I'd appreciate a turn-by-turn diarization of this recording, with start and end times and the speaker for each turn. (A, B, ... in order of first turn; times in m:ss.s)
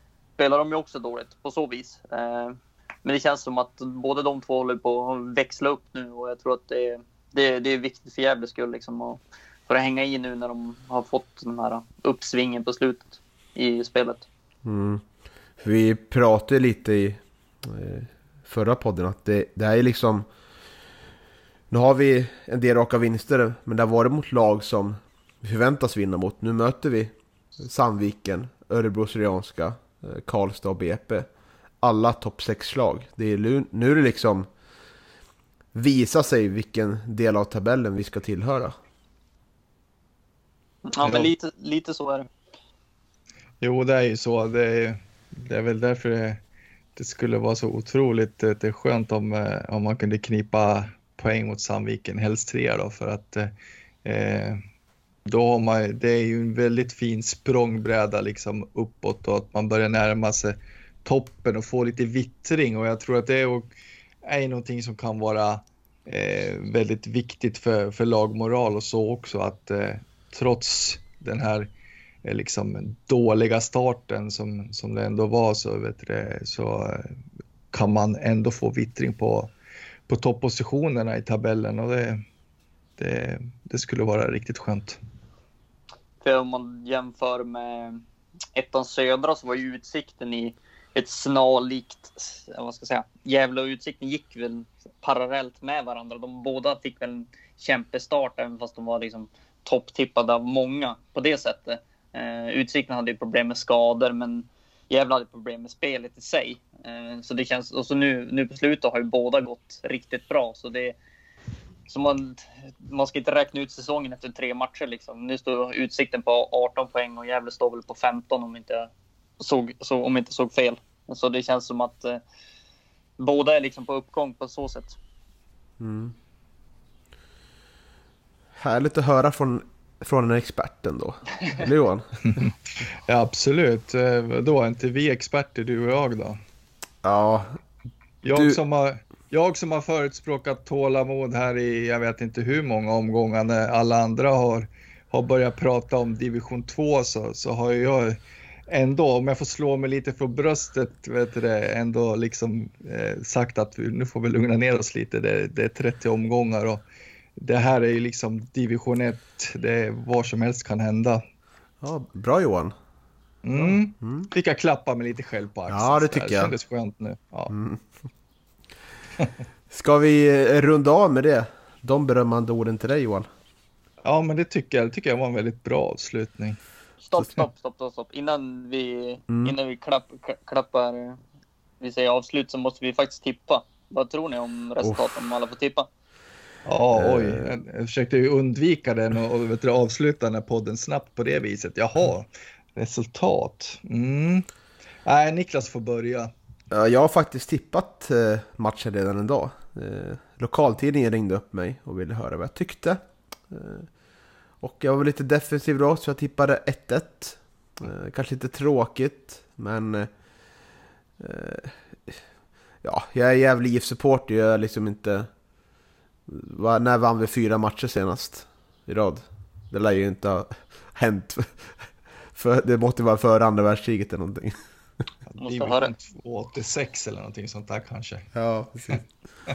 0:00.4-0:14.2 A
0:14.6-0:15.0 B
0:15.6-0:20.2 B
0:21.7-0:31.3 B
0:31.8-0:34.5 B
0:35.7-0:38.8 B
0:40.9-0:42.3 A
0:43.6-0:46.4 C
0:47.0-0:53.5 C
0:54.0-0:54.6 C
0:55.3-1:03.7 C
1:04.2-1:11.7 C
1:12.2-1:17.1 C
1:17.7-1:19.5 C
1:20.1-1:22.2 C
1:23.0-1:25.0 C
1:26.2-1:28.0 A
1:28.5-1:51.0 A
1:51.9-2:02.2 A
2:03.2-2:05.0 A
2:05.8-2:06.1 B
2:08.6-2:12.1 B
2:13.1-2:16.4 C
2:17.0-2:17.5 B
2:18.2-2:36.8 C
2:18.3-2:18.6 B
2:37.4-2:41.2 C
2:41.8-2:42.7 B
2:43.4-2:47.5 C
2:43.6-2:44.3 B
2:45.7-2:46.5 B
2:47.5-2:47.8 B
2:49.7-2:53.3 B
2:54.0-2:56.6 C
2:57.0-3:01.2 A
2:59.3-2:59.6 B
3:01.8-3:05.9 A
3:06.6-3:14.5 C
3:06.9-3:07.5 B
3:15.0-3:16.3 C
3:16.7-3:23.9 B
3:24.6-3:30.1 B
3:31.2-3:32.2 B
3:32.8-3:35.3 B
3:36.3-3:41.7 B
3:42.3-3:44.6 B
3:45.3-3:48.3 C
3:45.4-3:45.9 A
3:48.3-3:49.0 B